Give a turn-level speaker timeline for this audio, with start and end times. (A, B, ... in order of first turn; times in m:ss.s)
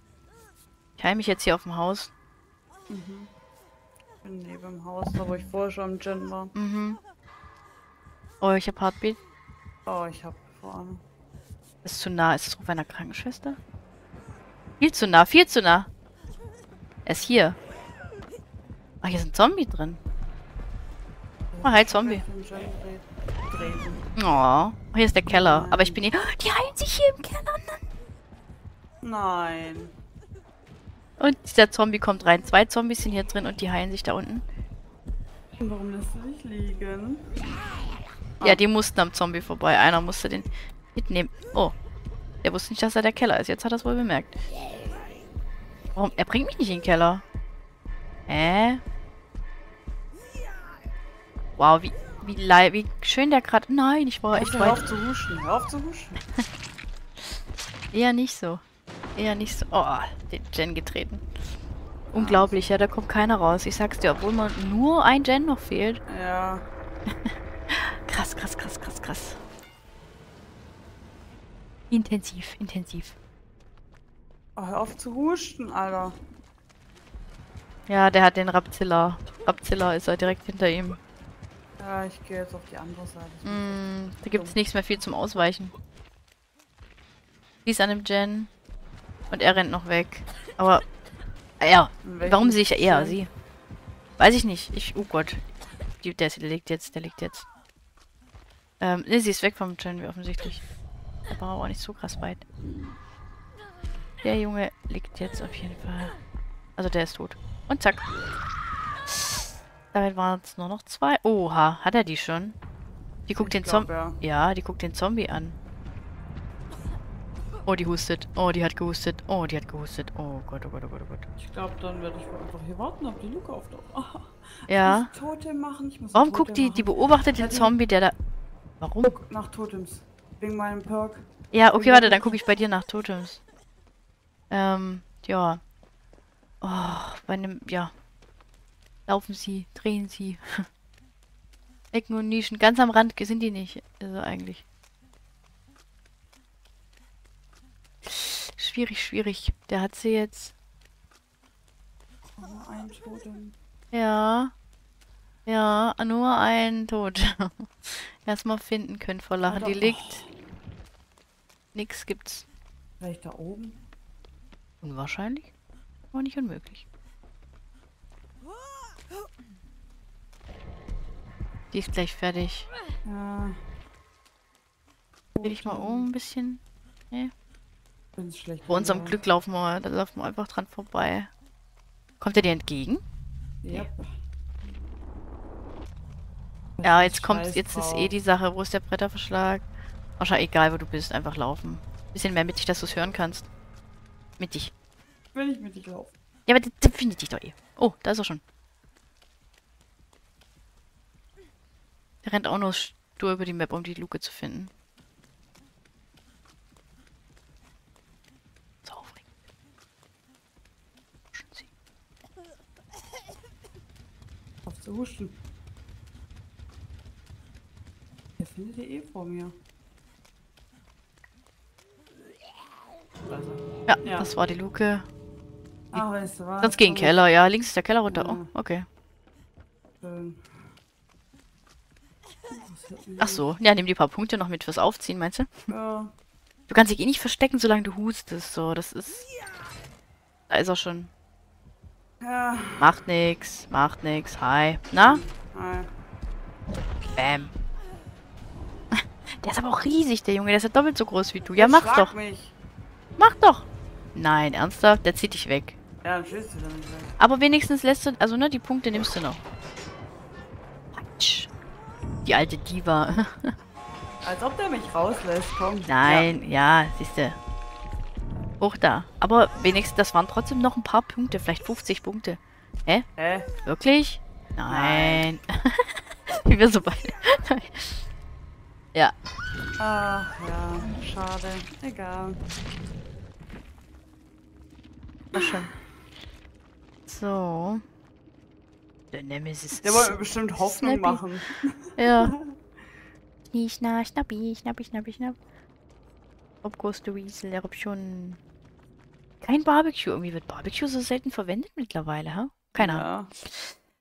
0:01.0-0:02.1 A
0:02.9-0:03.3 B
0:04.2-0:06.5 B
0:06.5-0:07.0 A
0:08.4-0:09.2 A
0:09.8-0:11.0 B
0:11.8-0:13.6 A
0:14.8-0:15.9 A
0:17.0-0:17.6 A
0:19.0-0:20.0 A
0:21.5-0:24.0 B
0:21.6-0:22.2 A
0:24.2-0:27.8 A
0:25.3-0:26.0 B
0:29.0-0:29.9 B
0:31.2-0:34.4 A
0:35.6-0:37.3 B
0:38.4-0:41.7 A
0:42.4-0:44.4 A
0:46.0-0:47.2 A
0:48.3-0:48.8 A
0:51.6-0:54.8 A
0:54.3-0:56.2 B
0:57.9-0:58.6 A
0:59.2-1:01.2 A
1:02.1-1:06.0 A
1:02.1-1:02.6 B
1:06.1-1:06.6 B
1:07.2-1:09.4 A
1:11.9-1:13.1 A
1:14.6-1:16.2 B
1:17.9-1:21.0 A
1:21.8-1:23.8 B
1:23.4-1:25.7 A
1:24.3-1:24.6 B
1:27.6-1:28.5 A
1:29.3-1:30.8 A
1:31.6-1:33.3 A
1:32.0-1:33.2 B
1:34.2-1:35.4 A
1:36.0-1:37.4 A
1:38.8-1:40.6 A
1:41.3-1:42.4 A
1:44.2-1:46.1 A
1:46.8-1:48.1 A
1:49.1-1:49.4 A
1:49.9-1:52.6 A
1:53.3-1:55.6 A
1:53.3-1:54.2 B
1:57.6-2:01.3 A
2:01.4-2:07.7 B
2:04.7-2:05.1 A
2:06.1-2:08.1 A
2:08.8-2:09.1 A
2:09.0-2:12.4 B
2:11.5-2:13.4 A
2:14.5-2:15.6 A
2:16.6-2:17.9 A
2:19.1-2:20.6 A
2:21.9-2:24.6 A
2:28.0-2:30.5 A
2:32.4-2:33.5 B
2:33.9-2:34.5 A
2:35.4-2:40.2 A
2:39.5-2:40.3 B
2:41.7-2:42.4 A
2:43.0-2:43.8 B
2:44.8-2:45.5 A
2:46.1-2:46.8 A
2:51.7-2:52.7 A
2:53.0-2:53.6 B
2:55.4-2:56.1 B
2:55.4-2:57.3 A
2:58.2-2:59.2 B
2:58.7-3:01.3 A
3:02.2-3:03.0 A
3:03.6-3:04.1 B
3:06.8-3:08.1 B
3:06.8-3:09.6 A
3:10.2-3:13.5 A
3:14.4-3:14.7 A
3:15.3-3:16.1 B
3:16.5-3:18.4 A
3:22.2-3:24.7 A
3:28.8-3:29.2 A
3:31.3-3:31.7 A
3:34.6-3:35.4 B
3:38.4-3:39.5 B
3:43.9-3:45.0 A
3:44.0-3:44.3 B
3:45.9-3:47.2 B
3:46.6-3:48.8 A
3:48.1-3:48.5 B
3:50.0-3:50.5 B
3:52.5-3:53.4 B
3:53.2-3:55.7 A
3:55.7-3:56.1 B
3:56.7-3:59.3 A
4:00.5-4:01.1 A
4:02.2-4:02.9 B
4:02.8-4:05.2 A
4:04.9-4:05.9 B
4:07.1-4:07.5 A
4:09.4-4:12.1 A
4:11.6-4:12.5 B
4:13.2-4:15.8 A
4:16.0-4:17.1 B
4:17.2-4:19.4 A
4:20.9-4:21.5 A
4:22.2-4:23.5 A
4:24.2-4:26.3 B
4:25.9-4:27.4 A
4:28.6-4:33.0 A
4:33.2-4:33.5 B
4:33.6-4:38.0 A
4:34.7-4:35.3 B
4:39.8-4:42.4 B
4:45.3-4:45.7 A
4:45.3-4:45.7 B
4:47.1-4:47.8 A
4:49.1-4:51.2 A
4:49.8-4:52.5 B
4:52.0-4:52.3 A
4:53.5-4:55.4 A
4:56.6-4:58.4 A
4:59.4-5:03.7 A
5:02.8-5:03.3 B